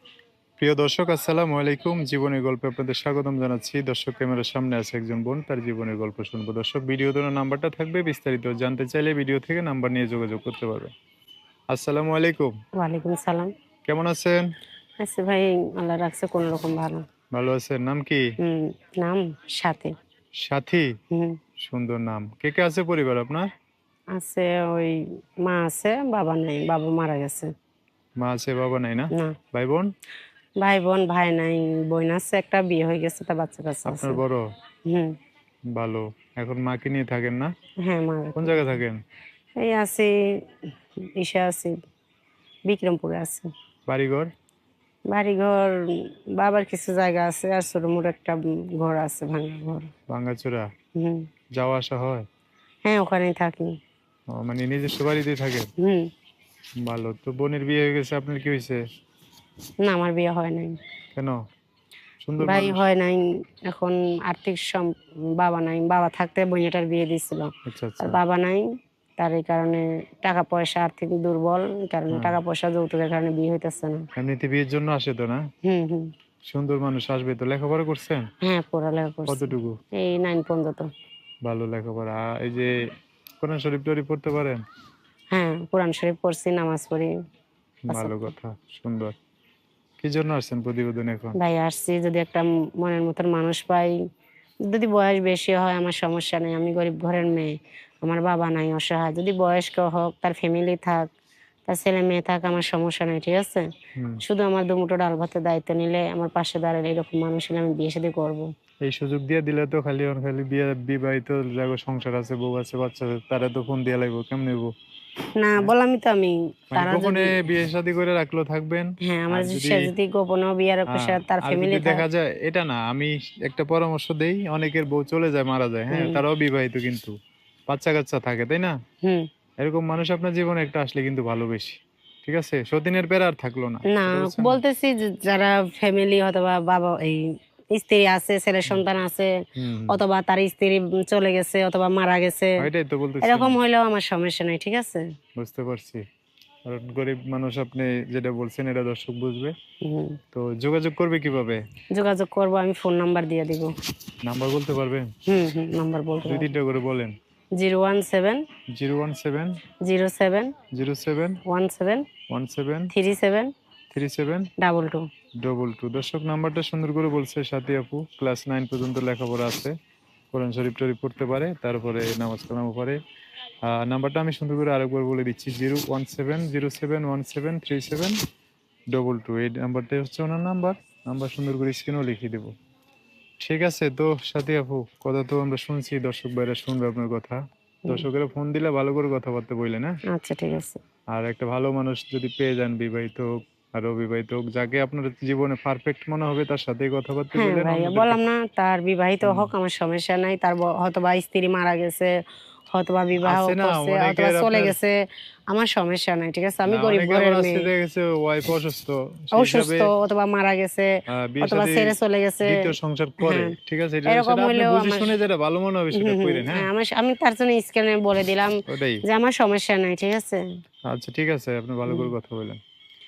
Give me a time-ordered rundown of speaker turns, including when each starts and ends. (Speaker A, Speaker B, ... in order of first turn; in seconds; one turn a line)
Speaker A: 0.6-10.9
Speaker A: 11.7-12.5
Speaker B: 12.8-13.5
Speaker A: 13.9-14.4
Speaker B: 15.0-17.0
Speaker A: 17.3-18.2
Speaker B: 18.4-19.9
Speaker A: 20.4-20.9
Speaker B: 21.1-21.4
Speaker A: 21.6-23.5
Speaker B: 24.2-27.5
Speaker A: 28.2-29.9
Speaker B: 30.6-34.2
Speaker A: 33.9-34.4
Speaker B: 34.9-35.1
Speaker A: 35.8-37.5
Speaker B: 37.8-38.7
Speaker A: 38.4-39.0
Speaker B: 39.6-40.1
Speaker B: 41.0-41.8
Speaker B: 42.7-43.5
Speaker A: 43.9-44.3
Speaker B: 45.1-49.9
Speaker A: 50.1-50.7
Speaker B: 51.0-51.3
Speaker A: 51.6-52.2
Speaker B: 52.9-53.8
Speaker A: 54.3-55.7
Speaker B: 55.8-56.1
Speaker A: 56.9-58.8
Speaker B: 59.8-60.8
Speaker A: 62.2-62.8
Speaker B: 62.4-74.0
Speaker A: 67.7-68.2
Speaker A: 72.1-72.4
Speaker A: 74.2-75.4
Speaker B: 75.7-76.1
Speaker A: 76.5-78.2
Speaker B: 78.4-80.9
Speaker A: 79.3-79.8
Speaker A: 81.5-82.7
Speaker A: 83.4-84.6
Speaker B: 85.3-87.1
Speaker A: 87.9-89.2
Speaker B: 87.9-88.3
Speaker A: 90.0-91.4
Speaker B: 91.4-94.0
Speaker B: 94.7-101.1
Speaker B: 101.7-103.7
Speaker B: 104.2-108.5
Speaker A: 108.9-114.7
Speaker B: 115.4-117.4
Speaker A: 116.7-119.8
Speaker B: 119.0-122.0
Speaker A: 120.9-127.1
Speaker B: 125.9-126.2
Speaker A: 127.7-128.8
Speaker A: 129.6-134.6
Speaker B: 133.9-139.3
Speaker A: 139.6-140.0
Speaker B: 139.9-142.7
Speaker A: 142.6-143.6
Speaker B: 143.2-145.1
Speaker A: 145.4-146.0
Speaker A: 146.7-149.6
Speaker B: 149.8-150.2
Speaker A: 150.3-151.6
Speaker B: 151.9-153.7
Speaker A: 154.2-155.1
Speaker B: 155.3-156.5
Speaker A: 156.3-157.2
Speaker B: 157.6-158.4
Speaker A: 158.7-159.6
Speaker B: 159.8-160.5
Speaker A: 160.7-161.4
Speaker B: 161.5-162.1
Speaker A: 162.3-162.9
Speaker B: 162.9-163.5
Speaker A: 163.9-164.5
Speaker B: 164.6-165.1
Speaker A: 165.4-169.7
Speaker A: 170.3-173.0
Speaker A: 173.7-178.2
Speaker A: 178.9-182.5
Speaker A: 183.4-190.0
Speaker B: 190.1-190.8
Speaker A: 191.1-198.2
Speaker B: 197.4-202.2
Speaker A: 199.2-199.5
Speaker B: 202.7-205.0
Speaker A: 203.2-204.8
Speaker B: 205.5-207.7
Speaker A: 206.7-209.9
Speaker B: 209.4-210.9
Speaker A: 211.1-216.7
Speaker B: 211.4-212.7
Speaker B: 213.2-213.6
Speaker B: 214.1-215.1
Speaker B: 215.9-220.4
Speaker A: 218.7-219.0
Speaker A: 220.9-222.6
Speaker B: 221.9-222.1